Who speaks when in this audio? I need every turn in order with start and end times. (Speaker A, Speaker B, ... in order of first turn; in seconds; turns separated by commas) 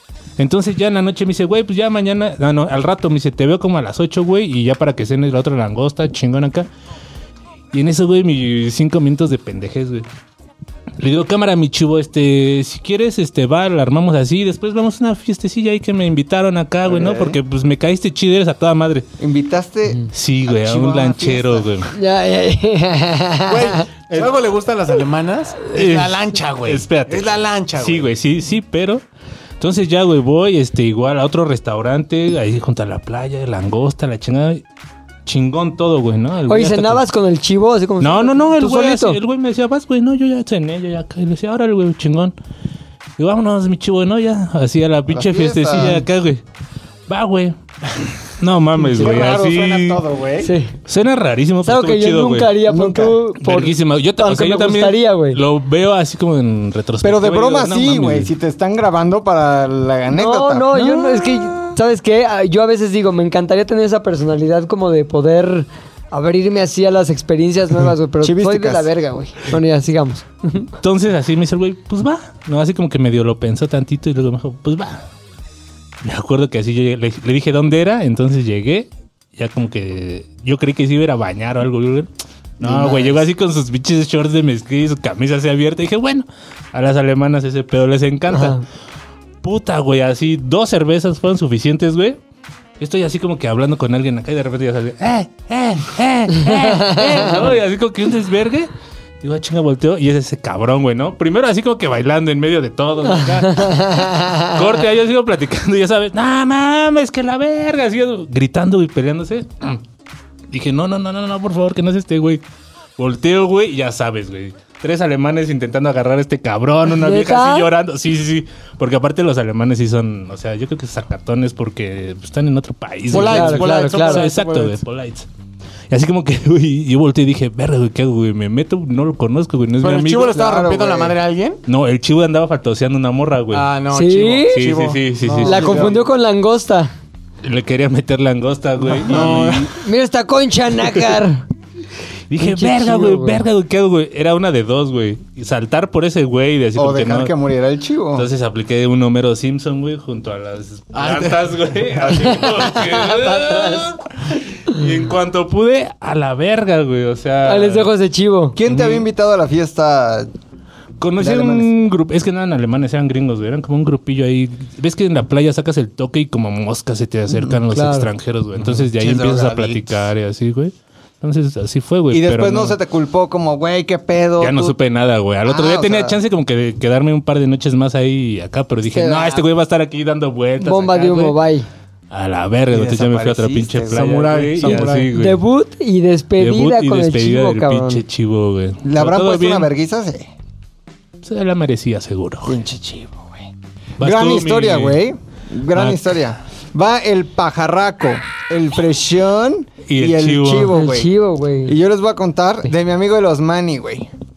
Speaker A: 0.4-6.7, Speaker A: 7.7-10.1, Speaker A: 11.0-19.1, Speaker B: 16.9-17.4, Speaker B: 19.2-21.7, Speaker A: 20.1-21.9, Speaker C: 21.9-23.9, Speaker D: 23.5-28.1, Speaker A: 25.7-29.0, Speaker A: 29.6-34.6, Speaker A: 35.2-37.0, Speaker C: 36.5-39.2, Speaker A: 38.0-42.3, Speaker A: 43.2-46.4, Speaker B: 45.1-46.0, Speaker A: 47.1-47.5, Speaker A: 48.2-50.0, Speaker B: 48.9-50.5, Speaker D: 49.0-50.0, Speaker C: 50.4-50.7, Speaker A: 50.9-52.6, Speaker C: 51.6-55.4, Speaker B: 52.6-53.2, Speaker A: 53.4-58.3, Speaker B: 57.0-61.8, Speaker C: 60.1-70.7, Speaker B: 68.2-68.9, Speaker A: 70.8-75.0, Speaker A: 76.0-82.1, Speaker A: 82.6-88.6, Speaker B: 82.6-83.2, Speaker C: 88.3-88.6, Speaker A: 89.4-92.2, Speaker A: 92.8-109.8, Speaker C: 96.3-97.5, Speaker C: 103.1-104.6, Speaker A: 110.5-112.4, Speaker A: 113.0-125.3, Speaker C: 116.9-117.7, Speaker D: 123.1-124.8, Speaker C: 123.1-124.3, Speaker A: 125.9-130.3, Speaker D: 129.8-131.6, Speaker B: 130.3-131.1, Speaker A: 131.7-133.7, Speaker D: 133.5-136.0, Speaker C: 133.9-134.6, Speaker A: 134.5-135.8, Speaker C: 135.4-136.9, Speaker B: 135.5-135.9, Speaker A: 137.4-139.7, Speaker D: 138.9-139.7, Speaker B: 139.1-139.5, Speaker C: 139.7-141.4, Speaker A: 142.3-147.3, Speaker C: 142.4-143.4, Speaker B: 146.8-148.3, Speaker A: 148.1-157.9, Speaker D: 150.9-152.4, Speaker C: 152.2-153.9, Speaker C: 157.4-158.6, Speaker B: 158.6-160.3, Speaker A: 158.7-159.1, Speaker A: 161.0-172.8, Speaker B: 161.2-161.7, Speaker C: 167.7-168.1, Speaker B: 168.9-170.0, Speaker B: 172.1-174.8, Speaker A: 174.4-181.4, Speaker B: 175.4-176.2, Speaker C: 178.9-179.4, Speaker C: 180.6-181.7, Speaker A: 182.1-185.4, Speaker B: 182.7-184.8, Speaker D: 183.9-185.1, Speaker C: 185.1-188.0, Speaker A: 186.4-189.7, Speaker B: 188.8-190.3, Speaker A: 191.2-192.6, Speaker B: 192.4-193.4, Speaker A: 194.0-195.0, Speaker B: 194.0-201.1, Speaker A: 195.7-196.2, Speaker A: 199.9-200.7, Speaker C: 200.7-201.8, Speaker B: 201.7-204.1